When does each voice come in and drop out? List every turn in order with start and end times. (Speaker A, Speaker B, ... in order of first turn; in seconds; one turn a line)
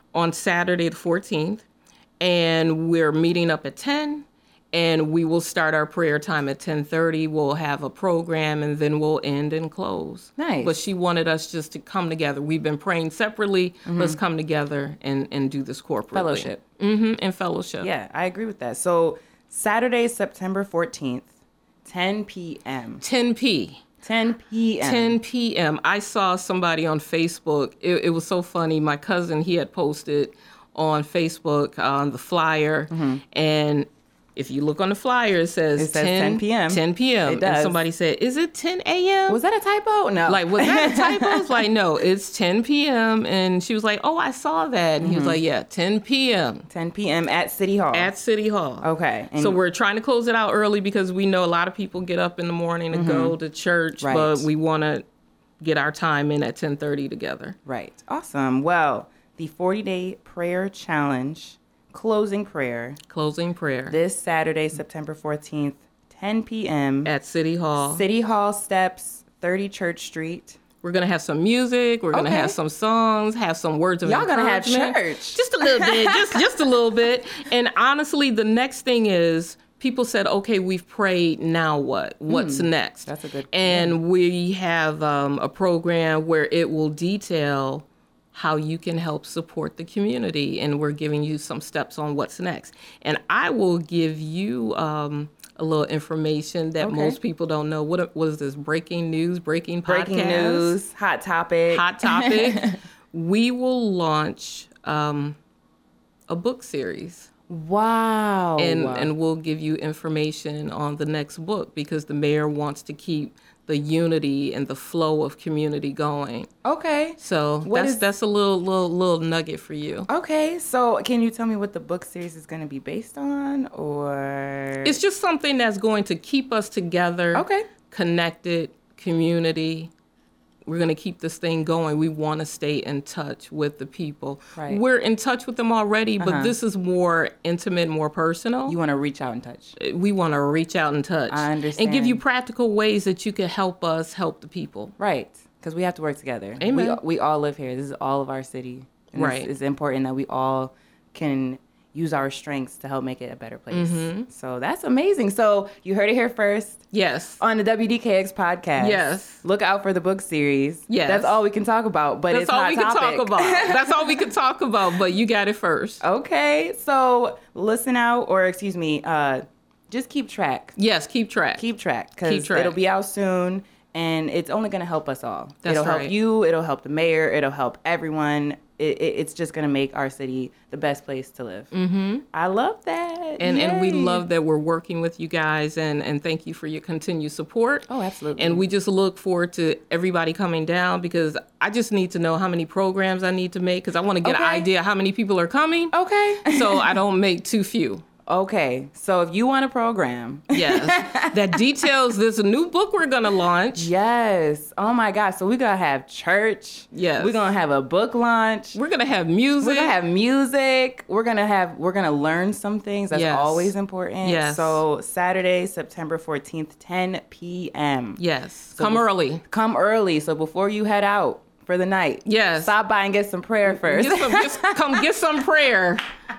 Speaker A: 0.1-1.6
Speaker A: 2.2-17.9
Speaker B: 10.4-10.8
Speaker B: 13.8-14.2
Speaker B: 16.1-16.6
Speaker B: 17.8-21.3
Speaker B: 21.8-23.0
Speaker A: 23.0-23.8
Speaker B: 24.0-25.2
Speaker A: 24.8-39.4
Speaker B: 32.9-33.2
Speaker B: 35.8-37.8
Speaker B: 39.3-41.6
Speaker A: 40.3-46.7
Speaker B: 45.0-45.4
Speaker B: 46.7-48.1
Speaker A: 47.9-48.9
Speaker B: 48.8-49.6
Speaker A: 49.4-55.0
Speaker B: 52.9-53.4
Speaker B: 54.0-54.5
Speaker A: 55.6-57.5
Speaker B: 57.6-63.0
Speaker A: 63.1-64.0
Speaker B: 63.9-67.1
Speaker A: 67.0-68.0
Speaker B: 67.8-70.6
Speaker A: 70.8-100.8
Speaker B: 72.1-72.5
Speaker B: 74.0-76.4
Speaker B: 82.3-84.0
Speaker B: 96.8-97.2
Speaker B: 99.9-102.8
Speaker A: 101.7-105.4
Speaker A: 106.3-107.3
Speaker B: 107.5-109.1
Speaker A: 108.6-116.5
Speaker B: 116.6-118.0
Speaker A: 117.2-120.1
Speaker B: 120.1-125.0
Speaker A: 124.8-129.9
Speaker B: 127.3-127.7
Speaker A: 130.7-138.8
Speaker B: 134.6-134.8
Speaker B: 136.2-136.6
Speaker B: 138.7-139.8
Speaker A: 139.8-144.9
Speaker B: 141.3-142.2
Speaker B: 145.0-156.8
Speaker A: 146.6-147.0
Speaker A: 149.1-149.5
Speaker A: 153.7-154.3
Speaker A: 156.9-157.4
Speaker B: 157.4-164.3
Speaker A: 158.8-159.4
Speaker A: 160.9-161.4
Speaker A: 162.3-166.0
Speaker B: 166.0-170.8
Speaker A: 170.8-171.6
Speaker B: 171.6-181.7
Speaker A: 172.2-172.8
Speaker A: 175.6-176.1
Speaker A: 181.7-182.2
Speaker B: 182.3-184.2
Speaker A: 183.4-198.0
Speaker B: 187.9-188.7
Speaker B: 194.2-194.7
Speaker B: 195.9-196.9
Speaker B: 198.3-201.6
Speaker A: 200.5-203.9
Speaker B: 203.7-208.8
Speaker A: 206.9-207.4
Speaker A: 208.8-209.9
Speaker B: 209.6-218.2
Speaker A: 213.1-214.8
Speaker A: 218.2-219.4
Speaker B: 218.8-225.1
Speaker A: 222.2-222.7
Speaker A: 223.7-226.0